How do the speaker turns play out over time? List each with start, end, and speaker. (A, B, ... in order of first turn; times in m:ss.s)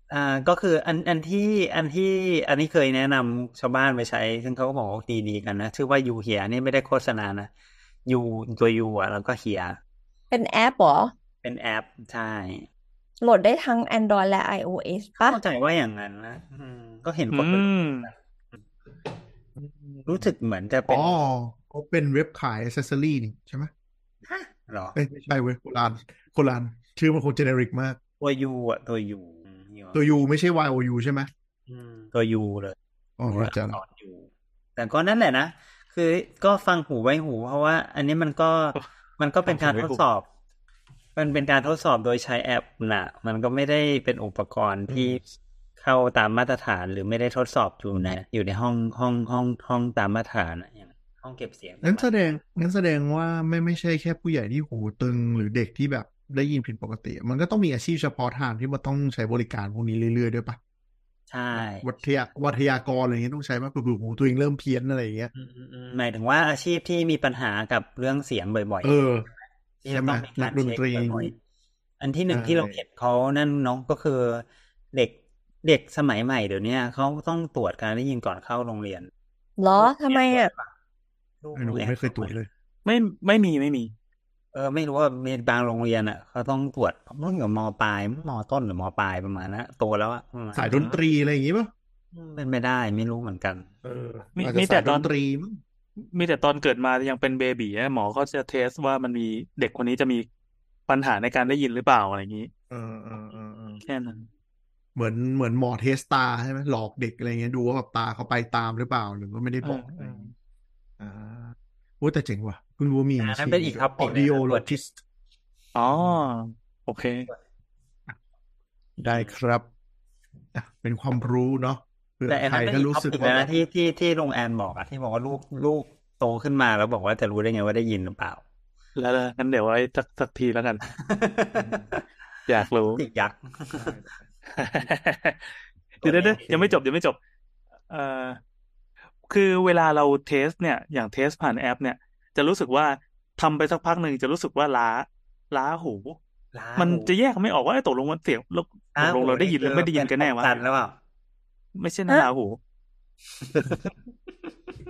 0:00.1-0:07.5 A
0:08.0-0:09.8 A
0:10.3-0:11.1 B
0:11.4-0:12.7 A
0:13.2-0:15.4 B
0:15.2-0:18.1 A
0:17.3-0:18.1 C
0:19.6-0:20.3 D
0:20.1-0:21.2 A
0:20.9-0:23.7 D
0:24.2-0:25.0 A
0:25.0-0:28.0 D
0:28.2-0:30.0 A
0:29.9-0:31.3 D
0:31.7-0:32.8 A
0:33.2-0:33.8 D
0:33.3-0:40.3 A
0:39.4-0:40.0 C
0:41.1-0:45.2 A
0:44.9-0:45.2 D
0:45.8-0:52.4 A
0:51.8-1:00.6 D
1:01.3-1:01.9 A
1:01.6-1:05.3 D
1:05.4-1:09.0 A
1:08.8-1:09.3 D
1:09.8-1:11.3 A
1:09.9-1:11.3 D
1:12.0-1:19.1 A
1:12.3-1:12.8 D
1:19.6-1:20.5 B
1:19.8-1:20.7 A
1:21.4-1:22.4 A
1:21.6-1:22.5 D
1:22.8-1:23.9 C
1:24.5-1:31.0 A
1:30.5-1:31.7 D
1:32.4-1:33.7 A
1:33.8-1:35.6 D
1:34.4-1:35.1 C
1:36.0-1:40.3 C
1:40.9-1:42.5 C
1:42.7-1:43.8 D
1:43.8-1:44.2 C
1:45.0-1:50.3 D
1:49.6-1:50.3 C
1:51.0-1:55.0 D
1:53.2-1:54.8 A
1:55.8-1:57.3 C
1:59.0-1:59.6 D
1:59.1-1:59.4 A
2:00.6-2:03.5 D
2:02.3-2:08.4 A
2:09.0-2:10.8 C
2:11.0-2:12.0 A
2:12.5-2:13.0 C
2:12.9-2:14.0 A
2:13.8-2:14.2 D
2:14.6-2:15.5 C
2:16.0-2:17.2 C
2:16.0-2:16.8 A
2:17.9-2:18.4 C
2:19.3-2:26.2 C
2:26.5-2:27.1 A
2:26.8-2:30.6 C
2:29.0-2:31.0 A
2:31.8-2:32.6 C
2:33.4-2:33.9 A